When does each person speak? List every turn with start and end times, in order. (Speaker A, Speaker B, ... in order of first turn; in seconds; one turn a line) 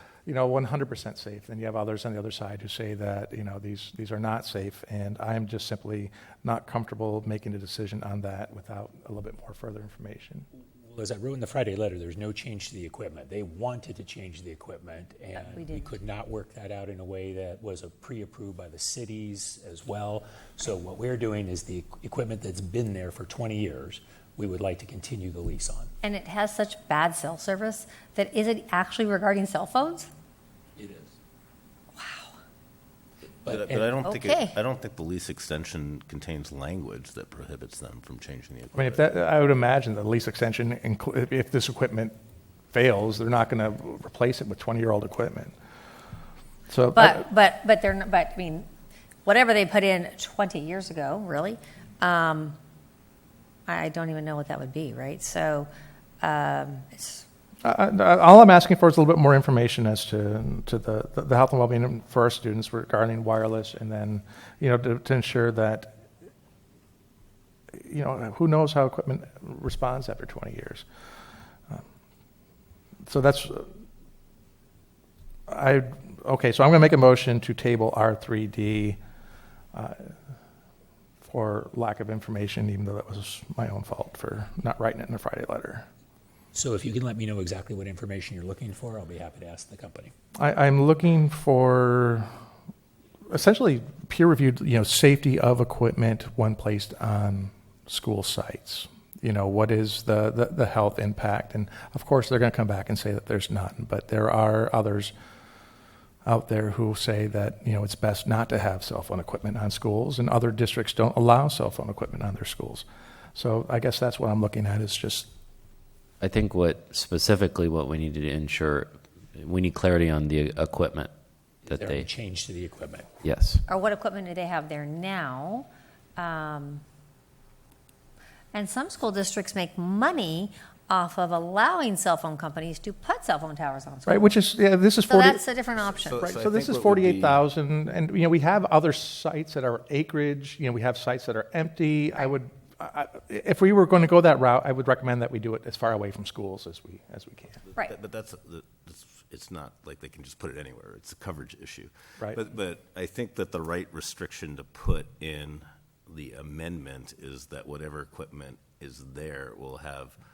Speaker A: 0.2-10.5
Speaker B: 10.8-25.9
Speaker C: 15.3-15.9
Speaker C: 26.0-30.1
Speaker B: 30.8-31.1
Speaker C: 32.0-32.3
Speaker B: 33.4-34.0
Speaker D: 33.5-39.0
Speaker C: 34.0-34.6
Speaker A: 38.7-42.1
Speaker A: 42.7-45.5
Speaker A: 46.7-47.3
Speaker C: 46.9-48.6
Speaker C: 49.2-52.5
Speaker C: 53.7-55.7
Speaker C: 56.2-57.2
Speaker A: 57.6-65.9
Speaker A: 67.8-70.8
Speaker A: 73.0-73.7
Speaker A: 75.5-79.0
Speaker A: 79.7-80.1
Speaker A: 81.2-85.8
Speaker B: 86.5-90.1
Speaker A: 90.4-92.3
Speaker A: 93.3-105.1
Speaker A: 106.2-115.3
Speaker E: 116.2-121.1
Speaker B: 121.6-123.1
Speaker E: 121.7-122.1
Speaker E: 123.2-123.6
Speaker C: 123.7-126.8
Speaker C: 128.5-134.3
Speaker A: 134.1-135.4
Speaker C: 135.1-136.2
Speaker D: 136.0-137.4
Speaker A: 136.2-147.6
Speaker D: 147.8-160.2